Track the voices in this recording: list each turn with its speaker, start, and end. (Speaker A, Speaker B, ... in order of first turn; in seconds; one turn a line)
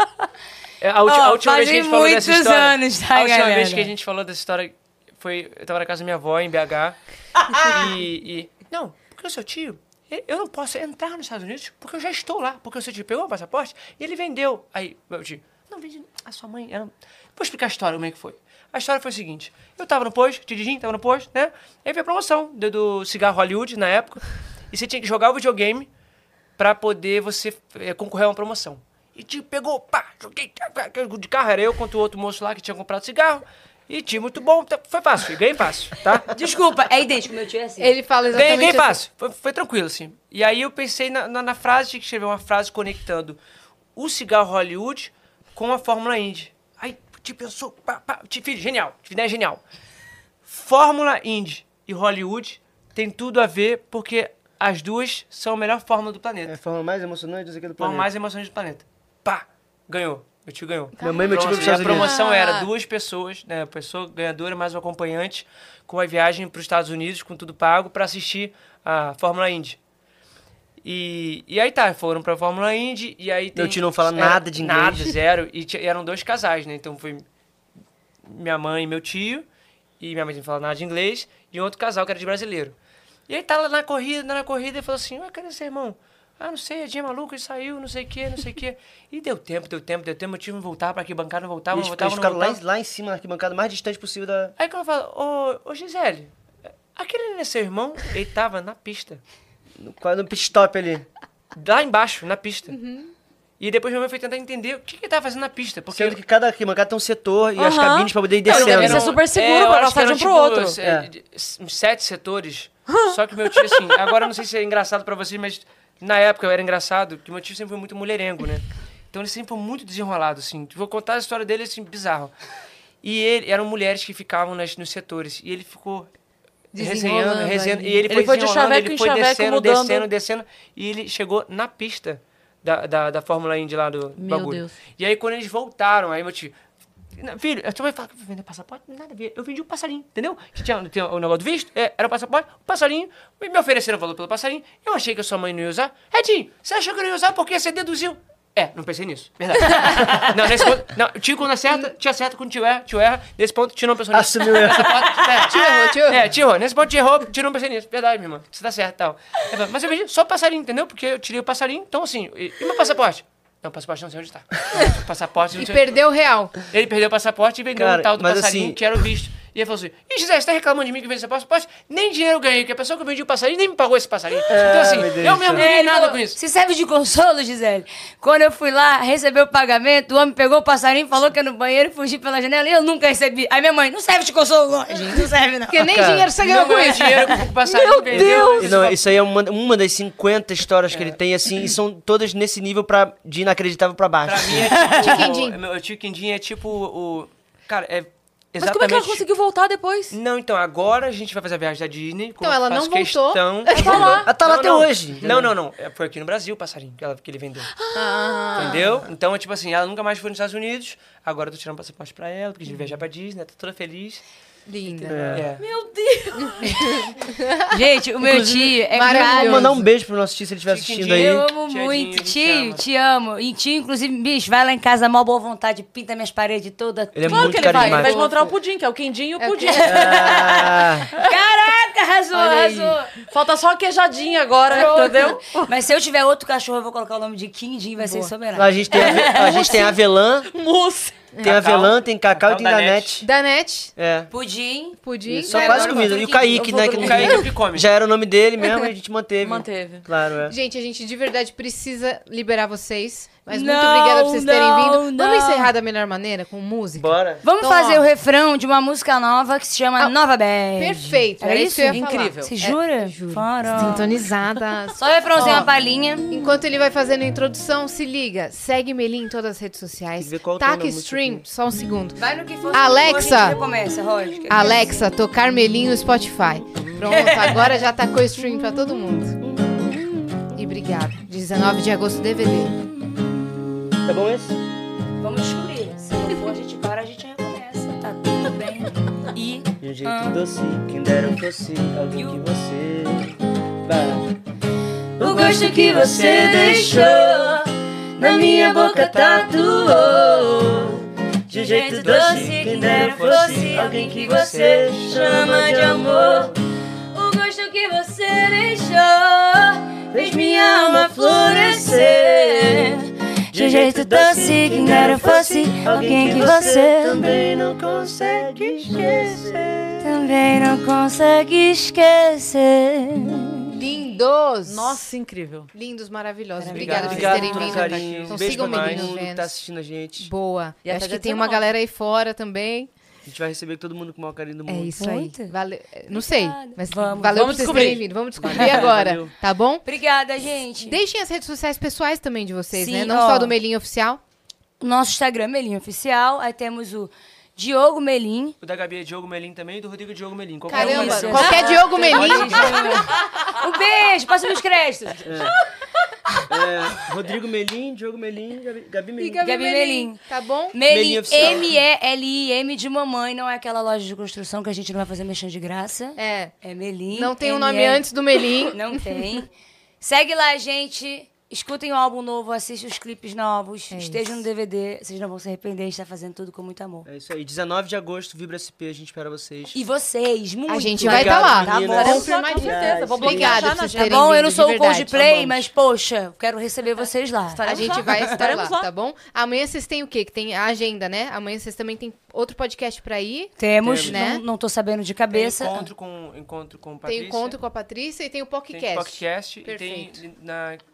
Speaker A: 0.8-25.9
Speaker B: 1.0-3.9
Speaker A: 26.6-36.3
Speaker B: 36.3-37.9
Speaker C: 37.8-39.0
Speaker A: 38.3-43.4
Speaker A: 44.0-49.6
Speaker A: 50.5-56.5
Speaker D: 56.5-58.1
Speaker A: 57.8-69.8
Speaker C: 61.0-62.3
Speaker D: 61.0-62.1
Speaker E: 62.0-62.7
Speaker A: 70.8-77.2
Speaker D: 73.5-75.1
Speaker A: 78.2-79.5
Speaker A: 80.0-82.7
Speaker A: 83.3-92.6
Speaker D: 91.7-94.5
Speaker A: 94.6-96.3
Speaker A: 96.9-99.2
Speaker D: 99.8-101.0
Speaker A: 101.5-102.8
Speaker C: 102.7-103.1
Speaker A: 103.6-106.2
Speaker D: 105.9-109.1
Speaker E: 107.5-110.8
Speaker A: 108.4-122.3
Speaker D: 110.8-111.1
Speaker E: 112.9-113.9
Speaker A: 123.0-126.1
Speaker C: 126.7-128.0
Speaker A: 126.7-136.5
Speaker E: 128.1-130.1
Speaker E: 134.2-134.7
Speaker A: 137.2-166.0
Speaker D: 154.1-155.4
Speaker C: 155.4-156.2
Speaker C: 165.6-166.5
Speaker A: 166.7-176.4
Speaker D: 167.7-168.8
Speaker D: 174.5-175.6
Speaker B: 175.5-186.0
Speaker C: 185.7-187.4
Speaker D: 185.9-186.3
Speaker A: 186.4-189.0
Speaker E: 187.6-188.7
Speaker D: 188.1-194.9
Speaker A: 190.9-191.2
Speaker A: 194.2-199.2
Speaker B: 194.6-195.0
Speaker C: 194.9-195.6
Speaker E: 198.6-200.1
Speaker A: 200.1-207.7
Speaker C: 202.4-204.2
Speaker E: 203.7-204.3
Speaker D: 204.0-205.5
Speaker E: 207.8-208.8
Speaker C: 207.9-208.9
Speaker A: 208.6-214.2
Speaker C: 214.7-215.4
Speaker A: 215.1-215.6
Speaker D: 215.1-215.5
Speaker E: 215.6-217.1
Speaker B: 216.6-216.9
Speaker C: 217.3-217.8
Speaker B: 217.7-219.8
Speaker D: 218.2-221.4
Speaker C: 218.9-219.8
Speaker A: 220.7-222.8
Speaker B: 221.1-228.4
Speaker D: 227.1-228.2
Speaker E: 227.3-230.3
Speaker B: 229.4-233.1
Speaker D: 229.8-231.1
Speaker E: 233.2-235.7
Speaker B: 234.7-239.9
Speaker C: 238.0-238.3
Speaker D: 238.5-240.5
Speaker E: 238.9-239.9
Speaker E: 240.5-241.2
Speaker C: 241.3-241.6
Speaker A: 241.4-243.2
Speaker D: 241.4-243.3
Speaker C: 243.2-243.9
Speaker D: 243.9-244.3
Speaker B: 244.3-247.4
Speaker C: 245.0-246.3
Speaker D: 245.3-250.5
Speaker A: 246.9-247.9
Speaker E: 249.4-250.1
Speaker C: 250.5-258.1
Speaker B: 253.5-255.7
Speaker D: 256.9-257.4
Speaker B: 257.4-264.2
Speaker C: 260.8-265.7
Speaker E: 261.9-262.5
Speaker B: 265.0-266.5
Speaker C: 266.3-273.6
Speaker D: 270.2-271.4
Speaker B: 272.1-275.1
Speaker C: 274.5-279.4
Speaker B: 277.0-277.9
Speaker D: 279.4-279.9
Speaker C: 280.5-282.8
Speaker D: 284.0-284.6
Speaker B: 285.2-290.4
Speaker D: 289.8-294.3
Speaker B: 292.1-292.4
Speaker D: 295.2-297.6
Speaker B: 295.2-306.6
Speaker D: 298.2-306.6
Speaker A: 302.0-303.7
Speaker B: 307.1-317.3
Speaker D: 310.1-312.9
Speaker D: 313.5-320.2
Speaker B: 320.0-323.8
Speaker C: 323.7-325.0
Speaker E: 324.6-325.7
Speaker C: 325.7-329.5
Speaker B: 326.6-327.9
Speaker A: 326.7-329.1
Speaker D: 326.7-330.3
Speaker C: 330.2-332.9
Speaker E: 330.8-331.7
Speaker D: 333.2-335.0
Speaker C: 334.7-339.8
Speaker B: 335.0-335.5
Speaker B: 336.1-337.9
Speaker E: 337.3-338.9
Speaker A: 338.4-339.3
Speaker B: 338.5-338.9
Speaker B: 339.8-341.0
Speaker C: 340.8-344.2
Speaker B: 342.7-343.6
Speaker B: 344.8-348.5
Speaker A: 348.6-352.9
Speaker C: 350.7-353.0
Speaker B: 350.7-355.4
Speaker E: 353.2-353.6
Speaker D: 355.2-355.6
Speaker B: 356.3-356.6
Speaker D: 356.5-359.5
Speaker C: 359.2-360.8
Speaker B: 359.4-369.5
Speaker D: 360.9-361.8
Speaker C: 361.3-361.6
Speaker C: 366.2-366.5
Speaker C: 367.1-369.2
Speaker B: 370.0-377.1
Speaker C: 373.9-374.4
Speaker D: 377.1-379.8
Speaker B: 379.7-382.3
Speaker C: 380.7-385.3
Speaker D: 381.0-383.7
Speaker E: 381.8-384.5
Speaker B: 383.9-388.3
Speaker D: 385.2-385.6
Speaker E: 387.5-388.9
Speaker C: 387.6-394.4
Speaker B: 393.6-395.9
Speaker D: 393.8-394.1
Speaker A: 395.3-397.6
Speaker C: 397.0-400.2
Speaker A: 398.7-400.8